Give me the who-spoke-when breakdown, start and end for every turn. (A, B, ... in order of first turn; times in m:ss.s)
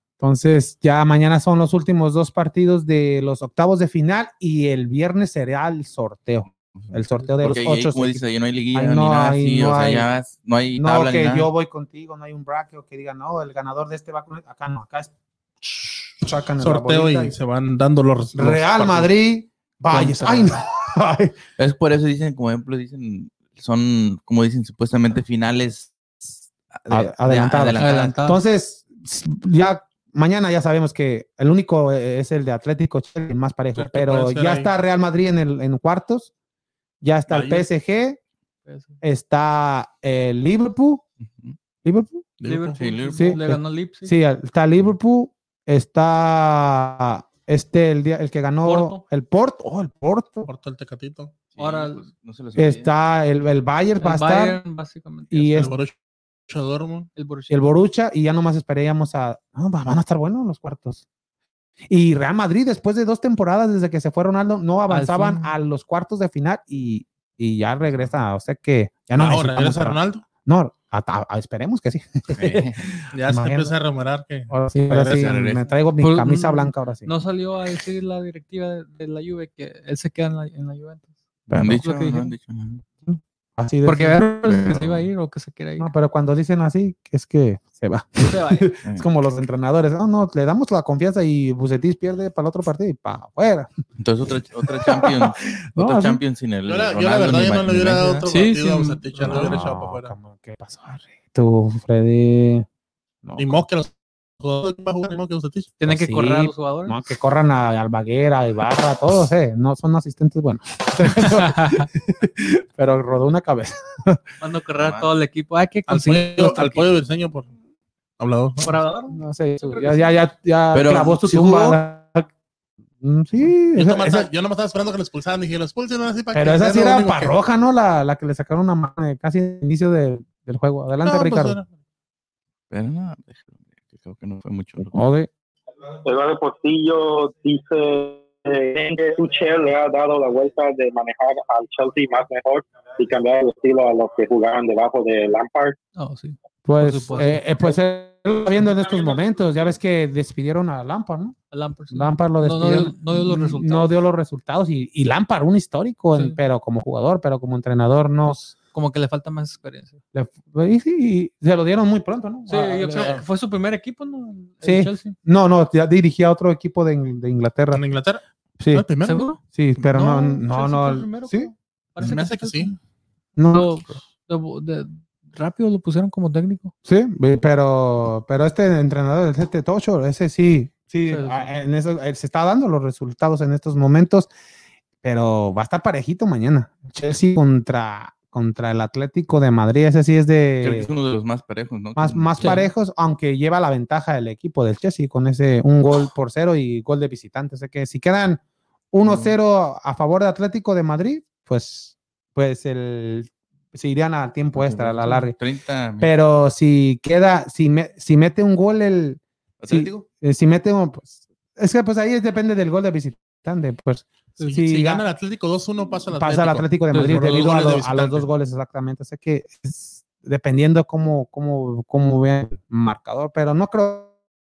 0:00.2-0:10.2 A
0:06.8-0:11.5 B
0:10.8-0:15.1 A
0:16.2-0:17.4 A
0:16.6-0:19.1 C
0:18.4-0:21.4 A
0:19.9-0:20.5 D
0:21.6-0:25.9 B
0:26.7-0:28.2 B
0:26.9-0:36.3 A
0:27.8-0:28.4 D
0:33.8-0:34.7 C
0:37.0-0:38.2 A
0:37.3-0:37.7 C
0:38.7-0:39.0 D
0:39.0-0:41.0 A
0:41.2-0:41.6 B
0:41.8-0:42.2 A
0:42.4-0:42.8 C
0:42.4-0:44.1 D
0:42.8-0:43.4 B
0:43.2-0:50.5 A
0:48.6-0:49.0 D
0:50.4-0:51.3 C
0:51.6-0:52.9 B
0:51.6-0:52.1 D
0:52.6-0:54.6 A
0:54.0-0:55.7 D
0:55.3-0:55.8 A
0:55.6-0:55.9 C
0:56.5-0:57.1 C
0:57.2-0:57.6 D
0:57.5-1:01.0 A
1:01.9-1:13.8 A
1:04.9-1:05.5 D
1:09.2-1:10.2 C
1:12.3-1:12.9 B
1:13.1-1:15.4 C
1:14.5-1:17.1 A
1:15.1-1:15.7 B
1:16.0-1:21.1 D
1:21.5-1:22.8 B
1:21.5-1:21.8 A
1:21.7-1:22.3 D
1:23.1-1:24.8 A
1:23.8-1:25.9 D
1:24.6-1:25.0 B
1:25.8-1:33.7 A
1:28.2-1:28.7 D
1:34.0-1:38.2 B
1:34.6-1:36.2 A
1:36.7-1:40.1 C
1:38.0-1:39.6 D
1:39.2-1:42.7 A
1:43.2-1:43.6 A
1:43.4-1:45.7 C
1:45.8-1:47.0 D
1:45.9-1:54.2 A
1:51.2-1:51.9 D
1:54.4-1:56.9 D
1:54.8-1:55.1 B
1:55.9-1:57.5 C
1:58.2-1:58.7 C
1:58.6-2:00.1 D
1:59.1-2:02.3 A
2:00.7-2:01.8 B
2:03.0-2:04.3 A
2:03.7-2:07.4 C
2:06.3-2:11.6 A
2:11.0-2:11.7 C
2:12.7-2:15.0 B
2:14.8-2:15.3 A
2:16.0-2:25.8 E
2:26.0-2:27.4 D
2:26.6-2:31.4 A
2:31.5-2:33.9 D
2:31.9-2:38.4 A
2:36.1-2:36.4 D
2:38.3-2:40.0 D
2:40.1-2:43.2 A
2:42.5-2:45.2 D
2:44.6-2:47.8 A
2:47.7-2:49.3 C
2:48.6-2:48.8 A
2:49.0-2:49.4 D
2:49.4-2:51.5 A
2:49.9-2:52.8 D
2:52.0-2:52.8 C
2:53.4-2:54.0 A
2:53.5-2:56.7 D
2:56.9-3:04.3 A
3:01.1-3:01.5 D
3:05.0-3:10.9 A
3:10.6-3:12.6 B
3:12.0-3:25.4 A
3:12.4-3:12.7 D
3:19.0-3:19.4 B
3:24.6-3:26.1 B
3:26.0-3:35.0 A
3:29.6-3:30.1 B
3:34.4-3:38.3 C
3:36.2-3:44.1 A
3:36.9-3:37.3 D